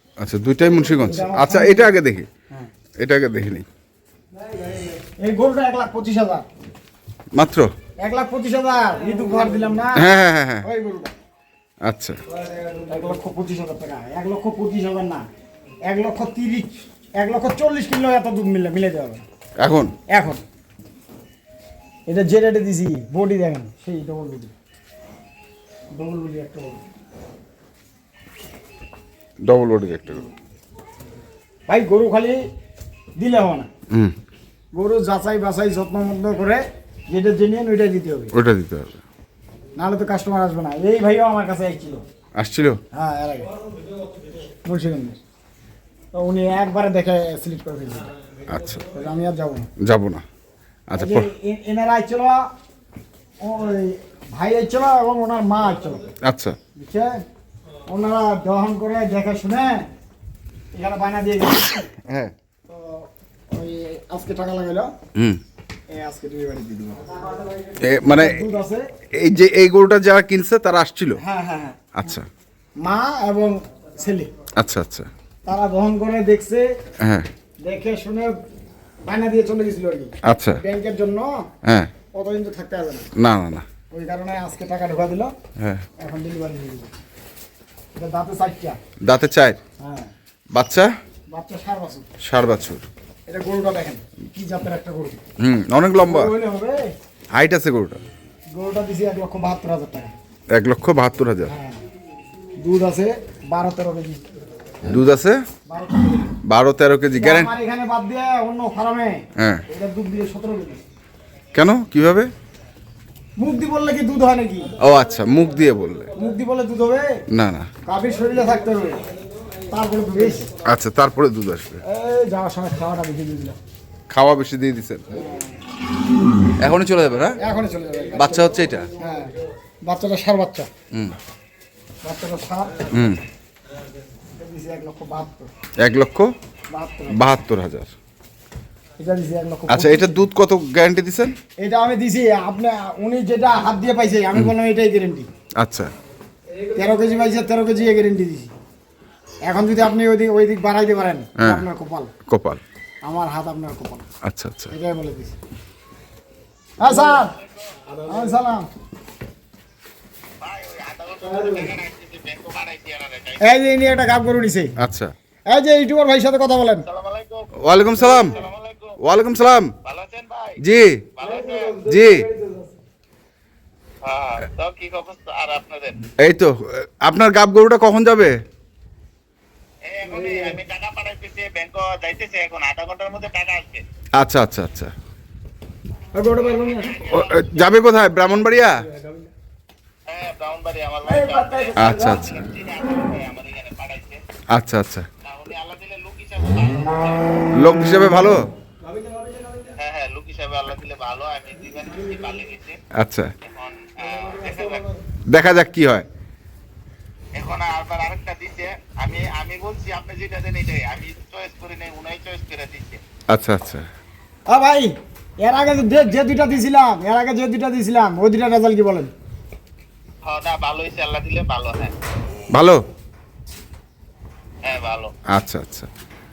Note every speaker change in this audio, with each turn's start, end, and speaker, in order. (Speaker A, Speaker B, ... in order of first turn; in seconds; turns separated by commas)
Speaker A: 0.2-2.3, Speaker B: 0.9-1.9, Speaker A: 3.0-3.7, Speaker B: 5.2-6.5, Speaker A: 7.3-7.7, Speaker B: 8.0-11.1, Speaker A: 9.9-10.7, Speaker A: 11.8-12.2, Speaker B: 12.7-15.3, Speaker B: 15.8-19.2, Speaker A: 19.6-19.9, Speaker B: 20.1-20.4, Speaker B: 22.1-24.5, Speaker B: 25.9-26.8, Speaker A: 29.4-30.3, Speaker B: 31.7-32.4, Speaker B: 33.2-33.7, Speaker A: 33.9-34.1, Speaker B: 34.7-38.3, Speaker A: 38.3-39.0, Speaker B: 39.8-42.0, Speaker A: 42.4-42.8, Speaker B: 42.9-43.5, Speaker B: 44.6-45.2, Speaker B: 46.1-48.1, Speaker A: 48.5-48.8, Speaker B: 48.9-49.7, Speaker A: 49.8-50.2, Speaker A: 50.9-51.3, Speaker B: 50.9-52.5, Speaker B: 53.4-56.1, Speaker A: 56.2-56.6, Speaker B: 56.8-57.1, Speaker B: 57.9-59.9, Speaker B: 60.7-61.8, Speaker A: 62.1-62.3, Speaker B: 62.7-64.9, Speaker A: 65.2-65.4, Speaker B: 65.9-68.9, Speaker A: 67.8-68.5, Speaker A: 69.2-71.2, Speaker B: 71.2-71.8, Speaker A: 72.0-72.3, Speaker B: 72.8-74.3, Speaker A: 74.6-75.1, Speaker B: 75.5-76.7, Speaker A: 77.0-77.3, Speaker B: 77.6-78.4, Speaker B: 79.0-81.5, Speaker A: 80.2-80.6, Speaker A: 81.7-81.9, Speaker B: 82.1-83.1, Speaker A: 83.2-83.7, Speaker B: 83.9-85.3, Speaker A: 85.6-85.8, Speaker B: 86.0-86.9, Speaker B: 88.0-88.8, Speaker A: 89.0-89.6, Speaker B: 89.8-90.1, Speaker A: 90.5-90.9, Speaker B: 91.3-92.1, Speaker A: 92.2-92.8, Speaker B: 93.3-95.2, Speaker A: 95.4-96.3, Speaker B: 96.0-96.8, Speaker A: 97.3-98.0, Speaker B: 98.5-100.1, Speaker A: 100.5-101.5, Speaker B: 101.5-101.8, Speaker B: 102.6-104.2, Speaker A: 104.8-105.4, Speaker B: 105.7-106.3, Speaker A: 106.5-107.5, Speaker B: 107.2-110.8, Speaker A: 109.4-109.6, Speaker A: 111.5-112.3, Speaker B: 113.4-114.7, Speaker A: 114.8-116.1, Speaker B: 116.2-117.1, Speaker A: 117.3-117.7, Speaker B: 117.9-119.0, Speaker B: 119.7-120.5, Speaker A: 120.6-121.8, Speaker B: 121.9-123.6, Speaker A: 124.1-125.2, Speaker B: 125.1-125.5, Speaker A: 126.6-127.4, Speaker B: 127.4-128.4, Speaker A: 128.1-128.9, Speaker B: 129.0-129.3, Speaker B: 129.9-130.7, Speaker B: 132.0-132.9, Speaker A: 132.9-133.2, Speaker B: 134.4-135.5, Speaker A: 135.8-136.3, Speaker B: 136.7-137.2, Speaker A: 137.1-137.9, Speaker B: 139.0-140.2, Speaker A: 139.7-141.3, Speaker B: 141.6-145.3, Speaker A: 145.6-145.9, Speaker B: 146.7-148.5, Speaker B: 149.4-152.1, Speaker A: 151.4-151.7, Speaker A: 152.3-152.6, Speaker B: 153.0-154.1, Speaker A: 154.2-154.7, Speaker B: 154.7-155.3, Speaker B: 156.8-157.4, Speaker C: 157.2-157.8, Speaker B: 158.0-158.7, Speaker C: 160.4-163.6, Speaker B: 161.3-161.7, Speaker B: 163.4-164.7, Speaker A: 164.8-165.1, Speaker B: 165.5-166.9, Speaker C: 166.9-169.0, Speaker A: 167.6-168.4, Speaker A: 169.0-169.7, Speaker C: 169.8-170.6, Speaker A: 170.6-171.1, Speaker C: 171.2-171.8, Speaker B: 171.2-172.8, Speaker A: 171.8-172.2, Speaker C: 174.0-176.1, Speaker A: 176.2-178.3, Speaker C: 179.8-183.8, Speaker B: 180.1-180.6, Speaker A: 184.2-184.9, Speaker B: 186.1-187.2, Speaker C: 186.4-187.6, Speaker A: 187.0-188.8, Speaker C: 190.1-194.2, Speaker B: 191.1-192.2, Speaker A: 191.8-192.4, Speaker A: 194.5-195.1, Speaker C: 195.2-197.5, Speaker A: 197.5-198.4, Speaker B: 199.0-199.4, Speaker C: 199.8-202.8, Speaker A: 202.9-203.3, Speaker C: 203.5-204.9, Speaker A: 205.3-206.1, Speaker C: 207.3-213.0, Speaker A: 213.3-213.9, Speaker B: 214.5-219.1, Speaker C: 220.2-221.9, Speaker A: 222.5-222.8, Speaker C: 224.6-225.1, Speaker A: 225.3-225.9